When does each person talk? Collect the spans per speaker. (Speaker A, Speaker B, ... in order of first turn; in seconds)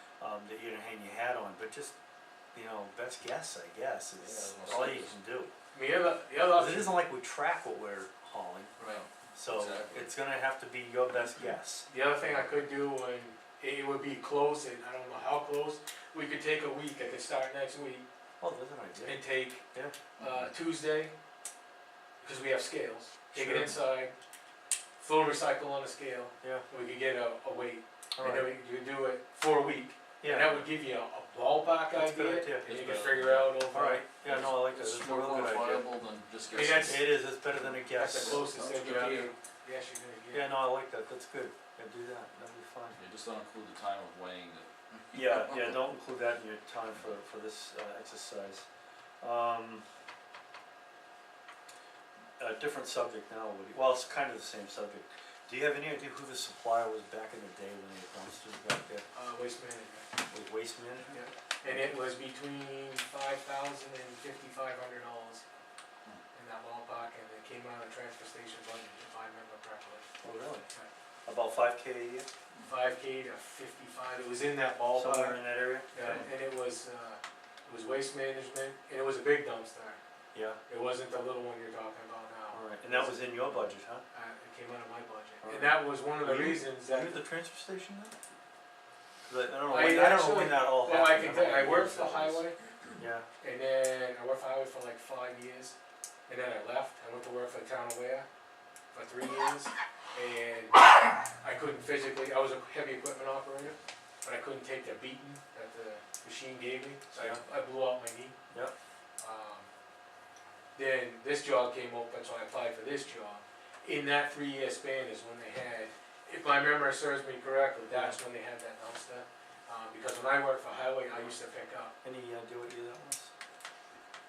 Speaker A: 0.2-1.9, 2.5-5.5, 6.5-8.7, 9.3-11.9, 18.4-19.9, 23.3-23.8, 28.1-28.5, 30.2-30.6, 31.9-32.6, 33.7-35.9, 36.8-38.5, 40.3-43.0, 45.1-48.6, 49.2-49.8, 52.4-59.1, 60.3-61.1, 70.2-70.7, 71.2-72.3, 74.9-76.3, 80.3-80.6, 82.5-84.0, 85.4-88.1, 89.2-92.4, 93.0-93.2, 107.2-107.4, 117.9-118.2, 122.0-123.3
Speaker B: 4.2-5.1, 8.8-10.1, 12.2-12.4, 20.2-20.5, 32.6-33.6, 34.2-39.3, 42.9-45.8
Speaker C: 5.7-7.0, 11.9-18.1, 19.0-19.6, 20.2-21.1, 22.2-24.1, 25.0-34.0, 36.5-37.1, 37.9-40.6, 59.1-60.1, 61.1-65.4, 66.3-70.1, 72.7-80.0, 80.7-87.2, 89.7-92.6, 93.4-95.7, 96.3-98.2, 98.9-108.3, 109.2-109.7, 110.8-121.9